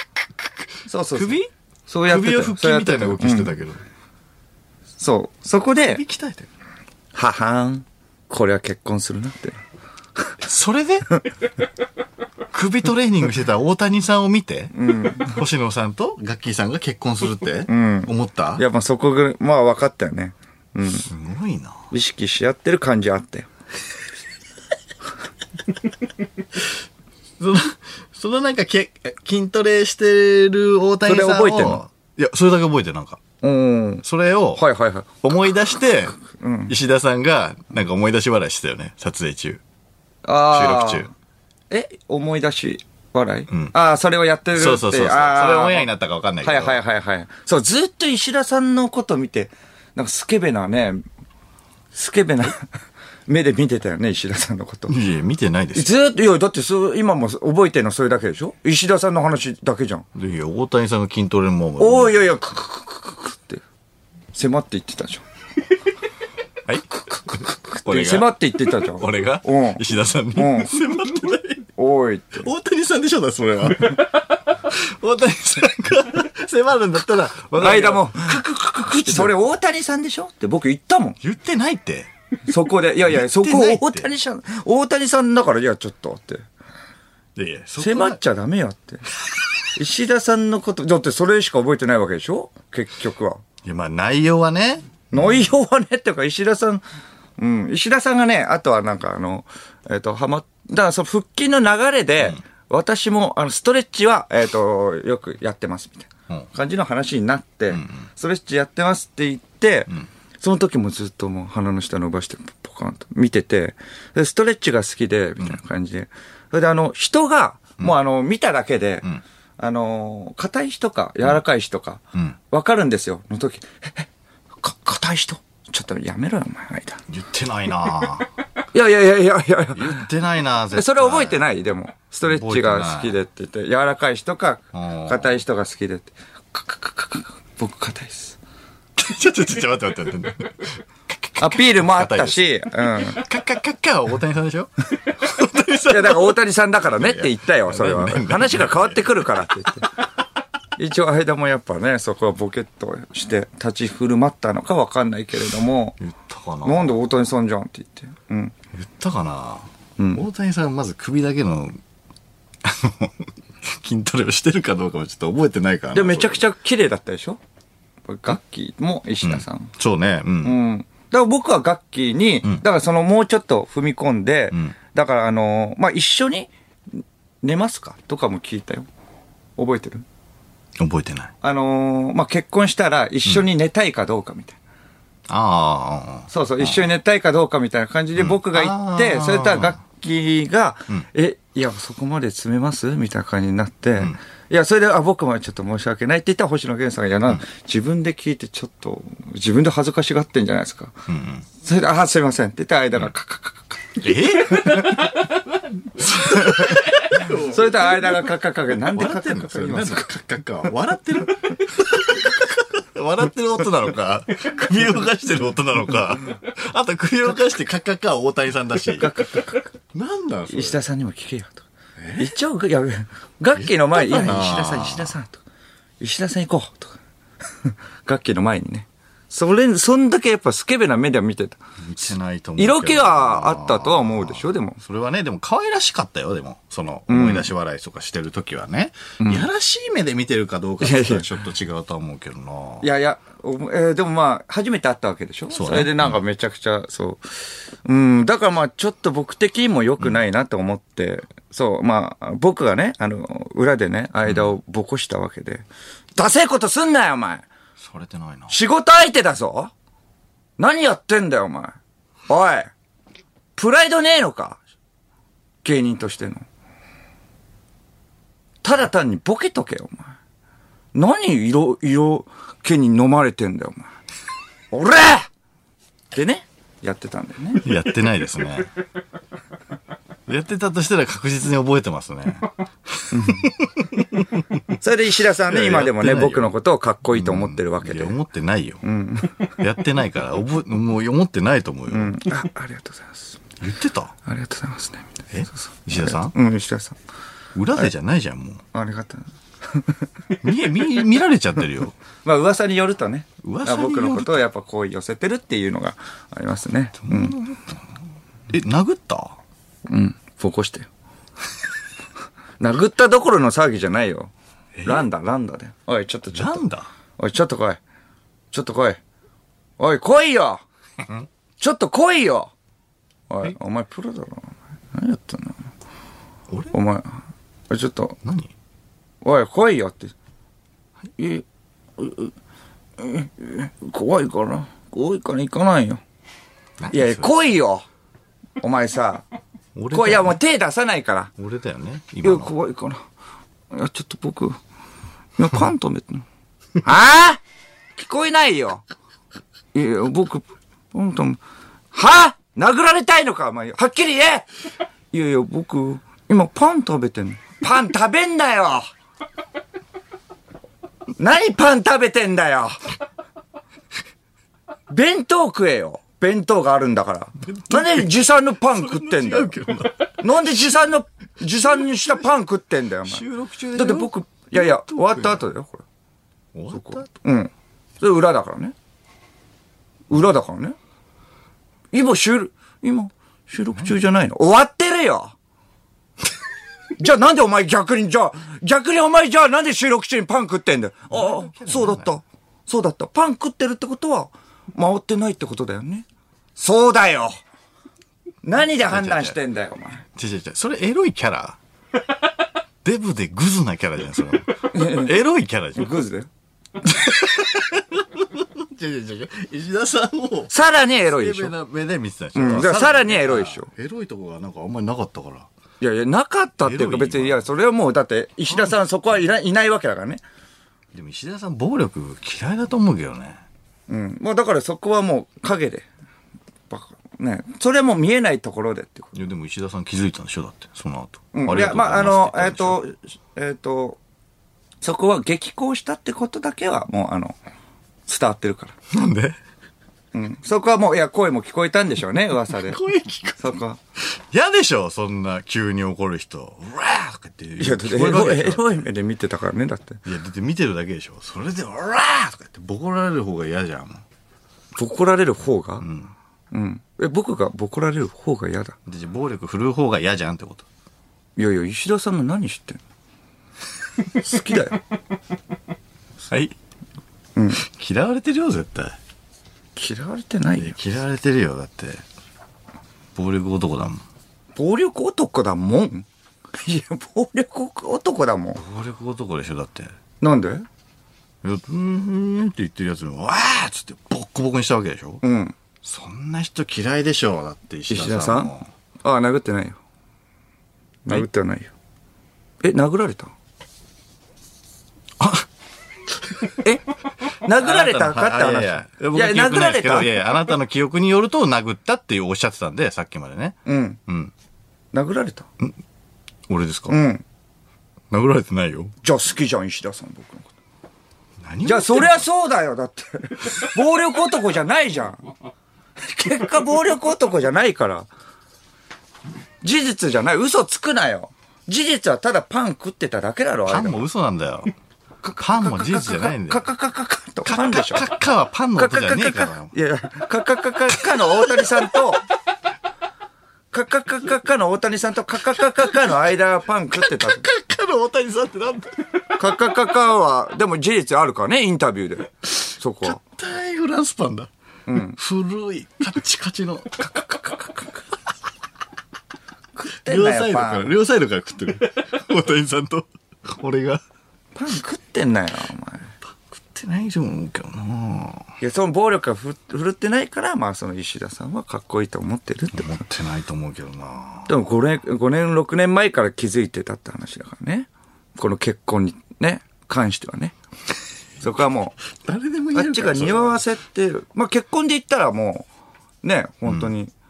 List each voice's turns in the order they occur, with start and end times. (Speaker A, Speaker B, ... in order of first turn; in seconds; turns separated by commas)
Speaker A: 0.8-3.5, Speaker B: 1.1-1.5, Speaker B: 2.1-3.8, Speaker A: 5.0-6.0, Speaker B: 5.9-6.5, Speaker A: 7.1-9.6, Speaker B: 10.4-11.2, Speaker B: 12.5-18.6, Speaker A: 14.7-15.4, Speaker A: 17.7-21.1, Speaker B: 21.0-21.8, Speaker A: 21.9-23.5, Speaker B: 27.4-33.2, Speaker A: 31.1-31.8, Speaker A: 33.4-34.0, Speaker B: 34.0-34.6, Speaker A: 34.5-35.1, Speaker B: 35.2-39.6, Speaker A: 36.3-36.7, Speaker A: 40.2-41.1, Speaker B: 40.5-41.1, Speaker A: 41.7-45.9, Speaker B: 44.5-46.8, Speaker A: 46.4-51.0, Speaker A: 51.9-52.7, Speaker A: 53.3-54.9, Speaker B: 54.9-55.9, Speaker A: 55.7-60.0, Speaker B: 60.1-62.2, Speaker A: 61.8-63.6, Speaker A: 64.3-65.2, Speaker B: 66.7-71.7, Speaker A: 67.8-69.8, Speaker A: 70.3-71.2, Speaker A: 71.8-72.5, Speaker B: 72.4-79.3, Speaker A: 77.6-81.2, Speaker B: 81.2-82.1, Speaker A: 82.5-86.5, Speaker B: 83.1-84.1, Speaker B: 87.3-88.2, Speaker A: 87.8-89.0, Speaker A: 89.7-93.4, Speaker B: 93.6-95.5, Speaker A: 95.1-96.8, Speaker A: 97.4-119.1, Speaker B: 107.7-108.1, Speaker A: 119.6-124.1, Speaker A: 124.6-127.0, Speaker B: 127.1-128.3, Speaker A: 128.6-130.1, Speaker B: 129.7-131.4, Speaker A: 130.7-138.4, Speaker B: 132.2-133.2, Speaker B: 134.7-135.4, Speaker B: 139.0-146.4, Speaker A: 141.4-143.2, Speaker A: 145.9-149.9, Speaker B: 146.9-149.5, Speaker A: 150.8-155.9, Speaker B: 156.0-157.0, Speaker A: 156.6-158.5, Speaker B: 158.7-161.8, Speaker A: 160.0-160.2, Speaker B: 162.6-166.4, Speaker A: 165.9-167.4, Speaker A: 168.1-169.7, Speaker B: 169.2-170.6, Speaker A: 170.4-178.9, Speaker A: 179.6-180.0, Speaker B: 180.8-181.3, Speaker A: 181.4-184.6, Speaker B: 185.3-186.8, Speaker A: 186.3-201.0, Speaker B: 188.2-189.8, Speaker B: 201.1-201.4, Speaker A: 201.6-205.2, Speaker B: 204.0-205.3, Speaker B: 206.0-208.3, Speaker A: 206.1-210.1, Speaker B: 208.9-220.8, Speaker A: 218.9-219.7, Speaker A: 220.5-221.6, Speaker B: 222.0-222.3, Speaker A: 222.2-225.4, Speaker B: 223.5-225.2, Speaker A: 226.0-227.0, Speaker A: 227.6-231.6, Speaker B: 231.8-242.9, Speaker A: 232.6-234.8, Speaker A: 237.1-237.5, Speaker A: 239.2-239.4, Speaker A: 240.8-241.3, Speaker A: 242.8-257.5, Speaker B: 245.5-246.2, Speaker B: 254.3-254.5, Speaker B: 257.8-258.5, Speaker A: 258.5-259.7, Speaker A: 260.6-261.8, Speaker A: 262.3-262.7, Speaker A: 263.6-264.6, Speaker A: 265.6-266.4, Speaker A: 268.6-270.2, Speaker A: 270.9-273.9, Speaker A: 274.7-275.3, Speaker A: 276.1-277.7, Speaker B: 277.6-278.7, Speaker B: 280.3-284.7, Speaker A: 283.1-283.5, Speaker A: 284.8-288.1, Speaker B: 285.4-286.5, Speaker B: 287.1-288.8, Speaker A: 288.8-289.5, Speaker B: 289.6-292.2, Speaker A: 291.9-293.4, Speaker B: 293.6-294.1, Speaker A: 294.2-295.3, Speaker B: 295.3-296.3, Speaker A: 295.9-297.0, Speaker B: 297.5-298.6, Speaker A: 298.7-300.1, Speaker B: 300.4-301.9, Speaker A: 302.2-307.4, Speaker B: 303.4-304.4, Speaker B: 307.0-307.9, Speaker B: 308.5-309.4, Speaker A: 309.9-310.9, Speaker A: 312.6-314.3, Speaker B: 314.8-315.1, Speaker A: 314.8-316.6, Speaker B: 316.3-316.9, Speaker A: 317.2-317.8, Speaker A: 318.5-319.0, Speaker A: 319.8-320.6, Speaker A: 321.6-322.5, Speaker A: 323.3-325.7, Speaker B: 326.5-326.7, Speaker A: 326.7-328.2, Speaker B: 328.2-328.5, Speaker A: 329.2-330.1, Speaker A: 331.2-331.4, Speaker A: 332.0-332.3, Speaker A: 333.0-336.0, Speaker B: 336.8-337.3, Speaker A: 336.9-337.9, Speaker A: 338.6-339.2, Speaker B: 339.8-340.4, Speaker A: 339.9-341.3, Speaker B: 341.4-342.5, Speaker A: 342.2-343.0, Speaker A: 343.7-344.6, Speaker A: 345.4-346.2, Speaker A: 346.8-347.4, Speaker A: 347.9-348.8, Speaker A: 349.7-351.4, Speaker A: 351.9-354.5, Speaker A: 355.1-358.9, Speaker A: 361.2-362.8, Speaker A: 364.9-369.5, Speaker B: 367.4-368.1, Speaker B: 368.7-370.2, Speaker A: 370.2-373.2, Speaker B: 371.6-372.1, Speaker B: 373.0-375.4, Speaker A: 373.7-375.8, Speaker B: 376.5-377.1, Speaker A: 376.7-378.7, Speaker A: 380.1-380.8, Speaker A: 381.9-385.3, Speaker A: 387.0-397.3, Speaker B: 391.1-392.1, Speaker A: 398.4-400.0, Speaker B: 398.6-399.4, Speaker B: 400.1-401.6, Speaker B: 402.8-406.0, Speaker A: 404.7-405.1, Speaker A: 405.8-406.3, Speaker B: 406.8-410.5, Speaker A: 410.5-411.5, Speaker B: 411.1-415.5, Speaker A: 412.3-413.7, Speaker A: 415.8-420.2, Speaker B: 416.6-417.4, Speaker B: 420.9-423.4, Speaker A: 423.9-425.9, Speaker A: 426.7-429.1, Speaker B: 429.1-432.8, Speaker A: 431.3-434.0, Speaker A: 434.8-437.4, Speaker A: 438.1-438.7, Speaker B: 438.9-439.4, Speaker A: 440.1-442.8, Speaker B: 442.6-448.8, Speaker A: 443.4-443.8, Speaker A: 447.6-450.0, Speaker B: 450.0-454.0, Speaker A: 454.7-455.8, Speaker B: 455.8-456.1, Speaker A: 456.5-458.8, Speaker B: 458.9-460.7, Speaker A: 461.4-462.8, Speaker A: 464.1-464.8, Speaker B: 466.3-466.5, Speaker B: 467.5-469.0, Speaker A: 469.8-470.8, Speaker B: 470.6-472.0, Speaker B: 473.1-474.0, Speaker A: 474.5-478.6, Speaker B: 478.6-479.9, Speaker A: 480.2-480.6, Speaker B: 481.4-485.2, Speaker A: 485.2-485.6, Speaker B: 485.8-488.7, Speaker A: 487.9-488.5, Speaker A: 489.0-489.8, Speaker A: 491.0-491.7, Speaker A: 492.6-493.3, Speaker B: 495.2-495.5, Speaker A: 496.6-500.2, Speaker B: 497.6-504.3, Speaker A: 503.6-504.0, Speaker A: 504.9-505.5, Speaker B: 506.5-507.0, Speaker A: 506.9-507.2, Speaker B: 508.1-508.9, Speaker A: 509.0-510.5, Speaker B: 511.4-512.2, Speaker A: 511.6-515.3, Speaker A: 516.0-518.1, Speaker A: 519.6-524.0, Speaker B: 523.7-524.7, Speaker A: 525.2-528.1, Speaker B: 525.4-526.7, Speaker B: 527.5-529.7, Speaker A: 528.8-532.2, Speaker A: 533.7-537.5, Speaker B: 537.0-539.0, Speaker A: 539.4-543.2, Speaker B: 543.0-544.5, Speaker A: 544.9-545.2, Speaker B: 545.0-547.4, Speaker A: 547.1-547.9, Speaker A: 549.7-550.9, Speaker B: 550.0-554.0, Speaker A: 554.5-556.1, Speaker B: 556.5-558.5, Speaker A: 558.6-563.0, Speaker B: 562.7-564.5, Speaker A: 564.5-570.5, Speaker A: 571.4-572.0, Speaker B: 572.1-573.6, Speaker A: 572.7-575.7, Speaker A: 576.2-577.1